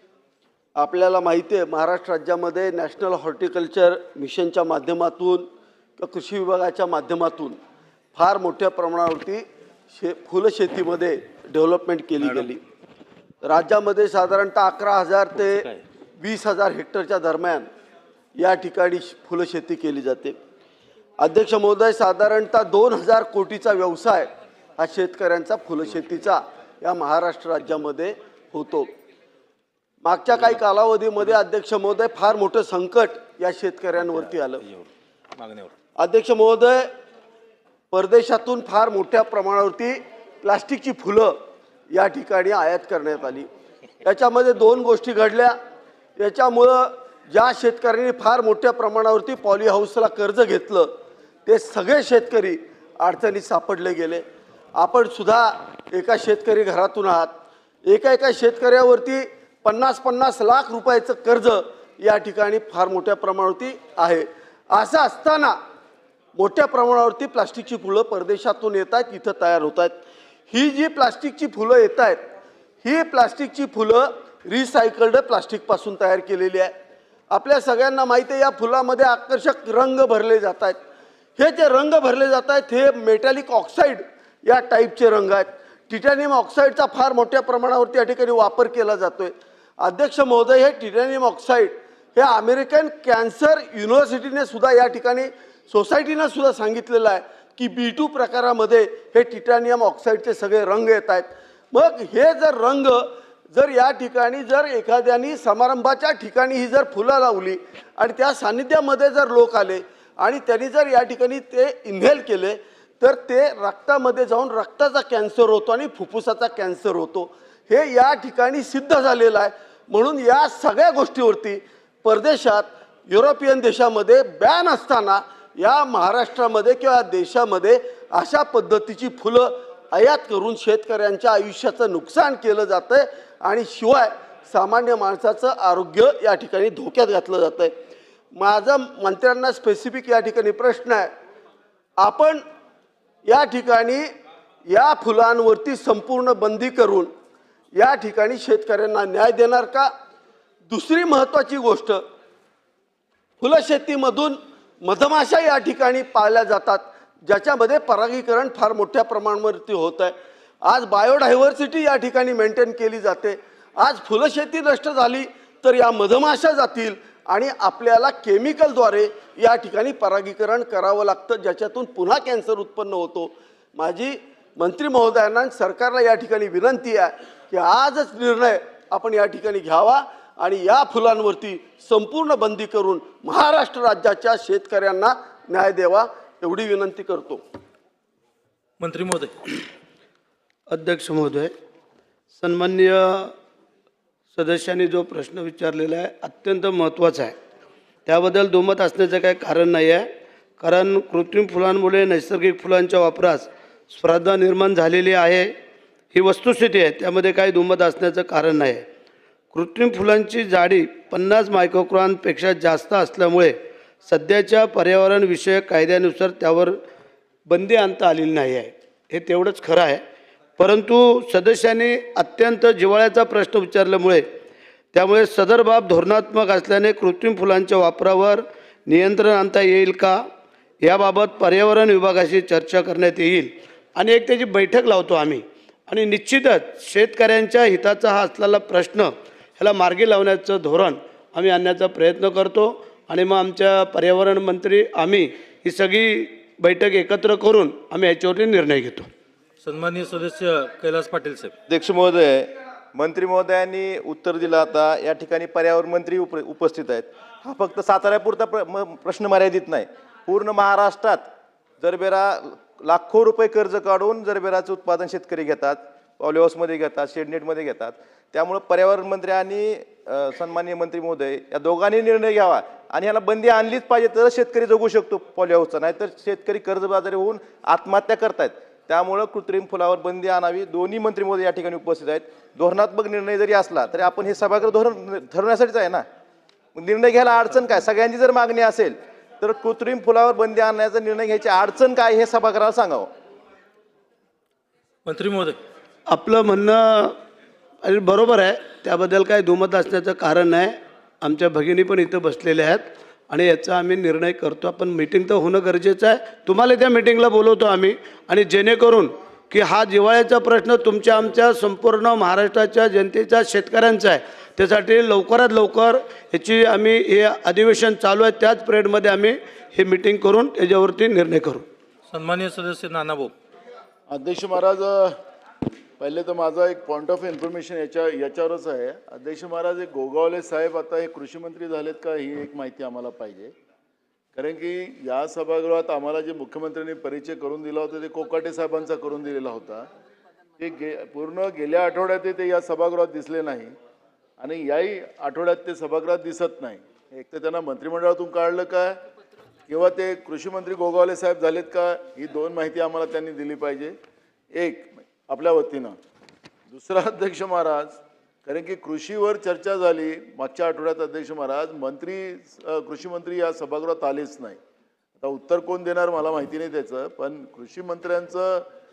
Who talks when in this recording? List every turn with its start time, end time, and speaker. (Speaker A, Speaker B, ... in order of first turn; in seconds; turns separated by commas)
Speaker A: 0.8-5.5, Speaker A: 6.0-7.6, Speaker A: 8.1-12.6, Speaker B: 12.2-12.5, Speaker A: 13.4-15.6, Speaker B: 15.4-15.8, Speaker A: 16.2-17.7, Speaker A: 18.4-20.4, Speaker A: 21.2-28.9, Speaker A: 30.0-34.6, Speaker B: 34.6-35.7, Speaker A: 36.0-36.9, Speaker A: 37.9-41.3, Speaker A: 41.9-43.5, Speaker A: 44.0-45.5, Speaker A: 46.2-50.9, Speaker A: 51.5-54.2, Speaker A: 54.8-57.3, Speaker A: 57.9-65.6, Speaker A: 66.3-70.0, Speaker A: 70.5-72.2, Speaker A: 72.8-76.7, Speaker A: 77.3-80.8, Speaker A: 81.4-137.7, Speaker A: 138.3-141.1, Speaker A: 142.0-142.4, Speaker A: 143.2-144.1, Speaker A: 144.7-147.1, Speaker A: 147.7-149.9, Speaker A: 150.7-152.0, Speaker A: 153.4-187.4, Speaker B: 188.8-189.3, Speaker C: 190.7-191.5, Speaker C: 192.3-193.3, Speaker C: 194.3-197.3, Speaker C: 198.1-200.0, Speaker C: 200.6-205.5, Speaker C: 206.1-208.8, Speaker C: 209.5-216.8, Speaker C: 217.5-220.0, Speaker C: 220.6-224.2, Speaker C: 224.9-230.2, Speaker C: 230.8-249.1, Speaker B: 249.6-251.5, Speaker D: 251.7-286.1, Speaker D: 286.7-293.1, Speaker B: 295.1-295.6, Speaker C: 296.1-297.1, Speaker C: 297.8-321.6, Speaker B: 322.1-323.3, Speaker E: 324.1-325.1, Speaker E: 326.0-333.5, Speaker E: 334.3-339.9, Speaker E: 340.6-343.7, Speaker E: 344.4-349.0, Speaker E: 349.7-354.0, Speaker E: 354.5-356.0, Speaker E: 356.7-364.6, Speaker E: 365.2-368.6